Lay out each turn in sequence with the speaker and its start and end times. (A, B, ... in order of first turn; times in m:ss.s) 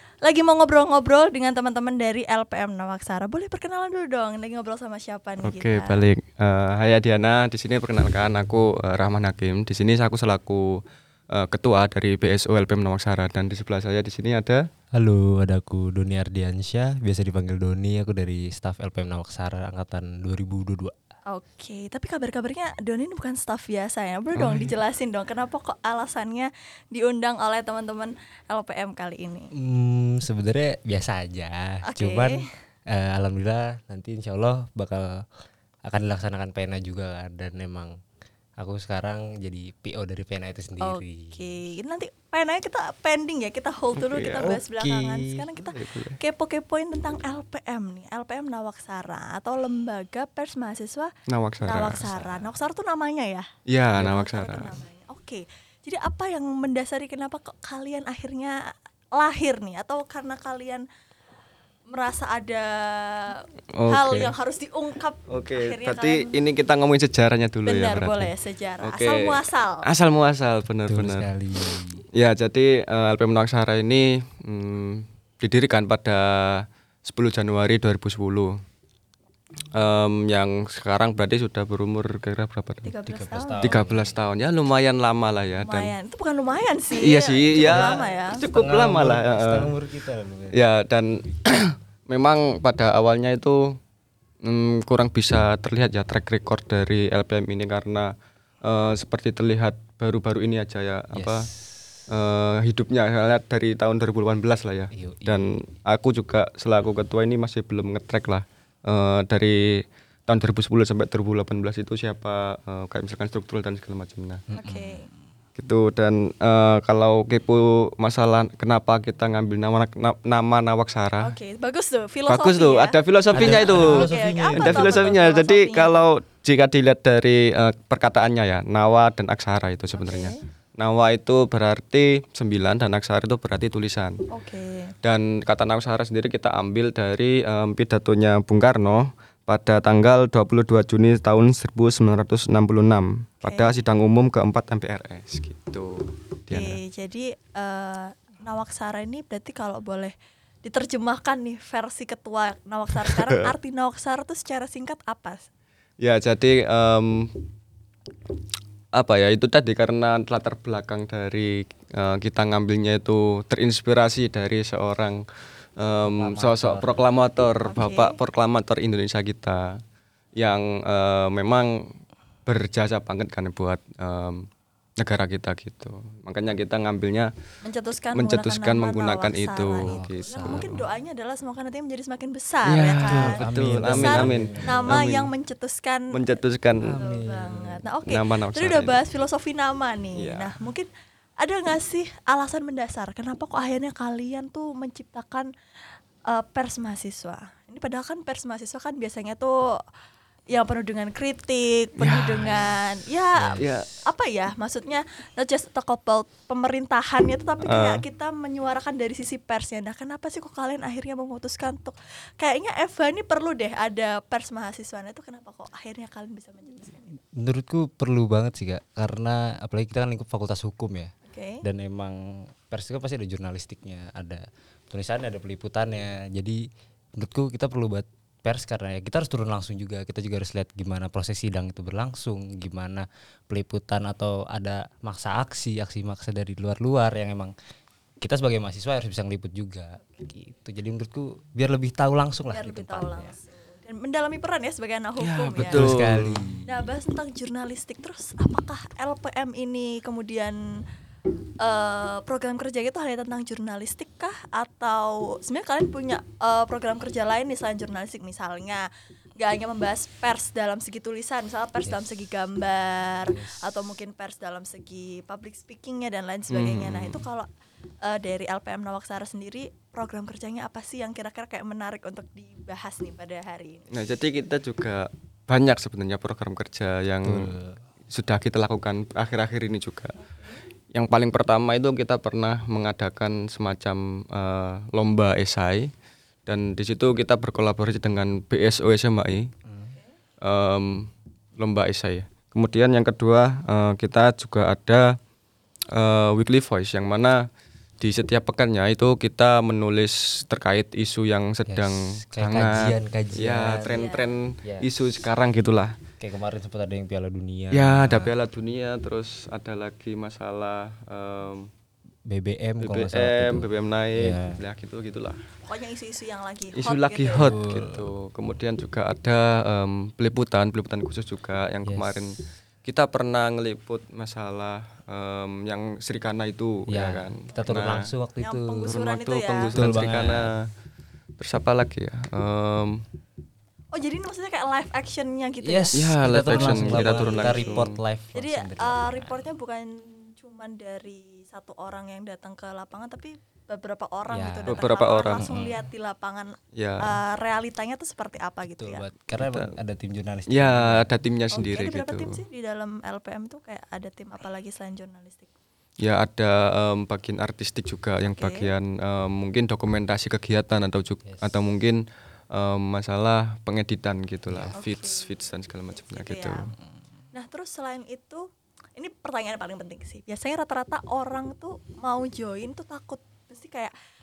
0:00.2-0:06.1 A
0:05.4-0:10.8 B
0:11.3-0:14.7 B
0:15.0-0:20.9 C
0:21.3-0:29.5 A
0:24.4-0:24.7 B
0:29.6-0:35.3 C
0:31.9-0:32.4 A
0:35.9-0:37.9 C
0:38.6-0:41.5 C
0:40.8-0:51.1 A
0:44.0-0:44.6 B
0:44.4-0:45.5 C
0:45.7-0:46.2 B
0:51.3-0:52.1 B
0:51.6-0:58.6 A
0:52.1-0:52.4 C
0:53.7-0:54.8 B
0:59.2-1:00.8 A
1:01.9-1:06.4 A
1:03.8-1:04.3 B
1:05.3-1:18.5 B
1:07.7-1:09.9 A
1:10.9-1:12.0 C
1:19.7-1:23.0 B
1:22.8-1:23.7 A
1:23.1-1:24.2 C
1:23.6-1:25.9 B
1:25.6-1:28.4 A
1:27.0-1:29.8 B
1:27.6-1:30.6 C
1:30.5-1:33.8 B
1:34.4-1:38.1 B
1:38.6-1:41.5 B
1:41.1-1:42.1 C
1:42.1-1:54.4 B
1:44.9-1:45.6 C
1:54.5-1:55.0 C
1:54.5-1:55.1 A
1:55.6-2:01.4 B
2:01.2-2:06.1 A
2:02.3-2:14.2 B
2:03.3-2:05.1 C
2:10.0-2:10.4 A
2:14.3-2:14.9 A
2:15.0-2:25.9 B
2:23.4-2:23.8 A
2:26.5-2:26.8 B
2:26.5-2:35.5 A
2:33.0-2:33.4 B
2:36.0-2:37.5 B
2:38.9-2:45.2 B
2:45.8-2:49.8 B
2:45.8-2:47.1 C
2:47.7-2:48.2 A
2:50.4-2:51.9 B
2:52.5-2:54.5 B
2:55.0-2:57.3 B
2:57.6-3:06.2 A
2:58.1-3:00.8 B
2:59.9-3:00.9 C
3:02.7-3:05.3 B
3:03.0-3:05.0 C
3:06.1-3:07.0 B
3:06.8-3:07.9 C
3:07.0-3:10.9 A
3:08.1-3:09.0 B
3:10.2-3:10.5 B
3:11.4-3:15.5 A
3:16.3-3:19.5 A
3:20.5-3:37.2 A
3:22.0-3:22.7 B
3:23.4-3:23.7 C
3:23.6-3:23.9 B
3:27.6-3:28.0 B
3:37.4-3:46.6 C
3:41.3-3:41.6 A
3:47.2-3:57.5 C
3:58.2-4:03.3 C
4:02.5-4:05.9 A
4:05.2-4:06.5 B
4:05.6-4:06.8 C
4:06.7-4:10.6 A
4:11.6-4:27.5 A
4:21.8-4:22.2 C
4:23.2-4:23.9 C
4:26.5-4:27.2 B
4:28.0-4:33.9 A
4:33.9-4:37.6 B
4:37.2-4:37.8 C
4:38.1-4:40.2 B
4:40.3-4:40.6 A
4:40.9-4:45.9 B
4:46.5-4:49.5 B
4:49.7-4:49.9 C
4:50.4-4:55.1 B
4:55.9-4:57.4 B
4:58.0-5:05.9 B
5:01.7-5:04.0 C
5:03.9-5:04.3 A
5:04.6-5:04.9 C
5:06.2-5:08.3 C
5:07.7-5:11.7 B
5:12.3-5:14.6 C
5:12.8-5:15.4 B
5:15.6-5:17.6 A
5:16.8-5:28.1 B
5:17.3-5:18.1 C
5:21.9-5:22.4 C
5:26.9-5:28.9 C
5:28.4-5:29.8 A
5:28.8-5:30.6 B
5:29.7-5:30.5 C
5:31.4-5:33.0 B
5:33.9-5:36.0 A
5:35.6-5:39.5 C
5:35.9-5:37.9 B
5:36.5-5:49.1 A
5:44.3-5:44.8 C
5:44.7-5:45.5 B
5:45.4-5:45.8 C
5:46.8-5:47.2 B
5:48.6-5:51.1 C
5:49.3-5:49.8 B
5:50.5-5:52.4 B
5:51.5-5:55.5 A
5:56.0-6:02.0 B
5:58.2-5:58.7 A
6:01.2-6:01.6 C
6:02.5-6:06.7 B
6:04.5-6:04.8 C
6:04.8-6:06.6 A
6:07.3-6:13.9 A